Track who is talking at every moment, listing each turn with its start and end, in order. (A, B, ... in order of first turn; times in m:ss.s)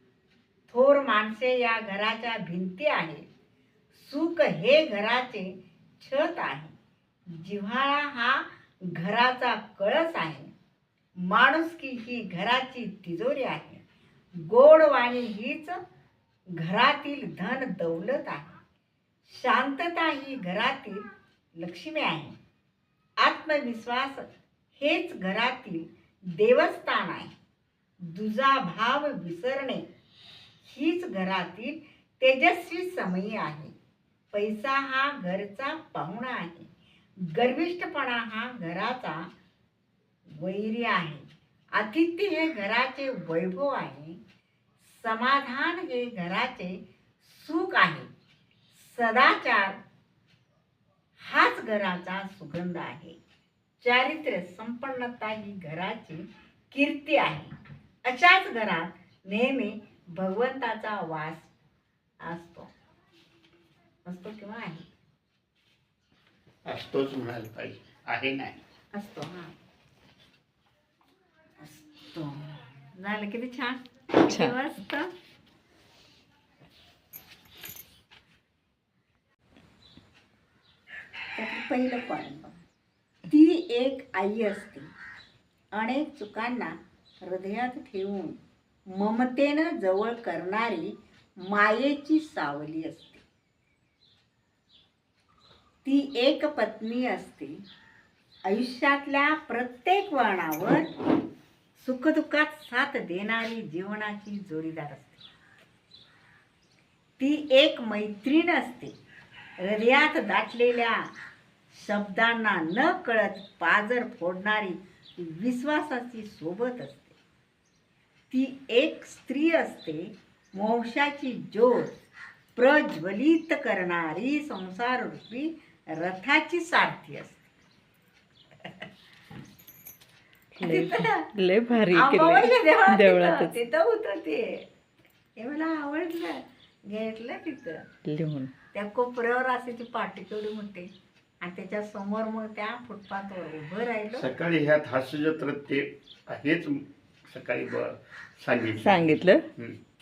0:00.7-0:03.2 A
0:03.9-0:06.7 A
0:07.3-0:10.5 A
0:11.2-0:13.8 A
0:14.4-0:15.8 A
0:16.6-0:18.6 A
0:19.3-0:21.0 A
0:21.6-0:22.4 A
0:23.2-0:27.3 A
0:28.1-0:29.8 A
0:30.6-0:33.7 A
0:34.3-0:36.7 A
0:37.2-0:39.3 A
0:40.3-0:44.2 A
0:44.8-0:48.1 A
0:48.7-0:49.8 A
0:51.2-0:53.2 A
0:53.8-0:57.5 A
0:58.1-1:01.5 A
1:02.2-1:02.7 A
1:04.0-1:04.9 A
1:06.6-1:08.6 B
1:08.9-1:09.5 A
1:11.6-1:15.1 A
1:21.4-1:22.6 A
1:23.3-1:24.9 A
1:25.7-1:28.4 A
1:28.9-1:33.2 A
1:35.8-1:37.6 A
1:38.5-1:40.9 A
1:41.8-1:45.2 A
1:47.2-1:48.9 A
1:49.6-1:51.1 A
1:51.7-1:57.2 A
1:58.3-2:01.9 A
2:02.6-2:07.4 A
2:10.6-2:13.6 C
2:10.6-2:11.3 A
2:11.9-2:14.7 A
2:15.4-2:17.8 A
2:18.0-2:18.5 C
2:18.7-2:20.9 A
2:21.4-2:24.3 A
2:24.1-2:29.8 B
2:28.8-2:29.4 C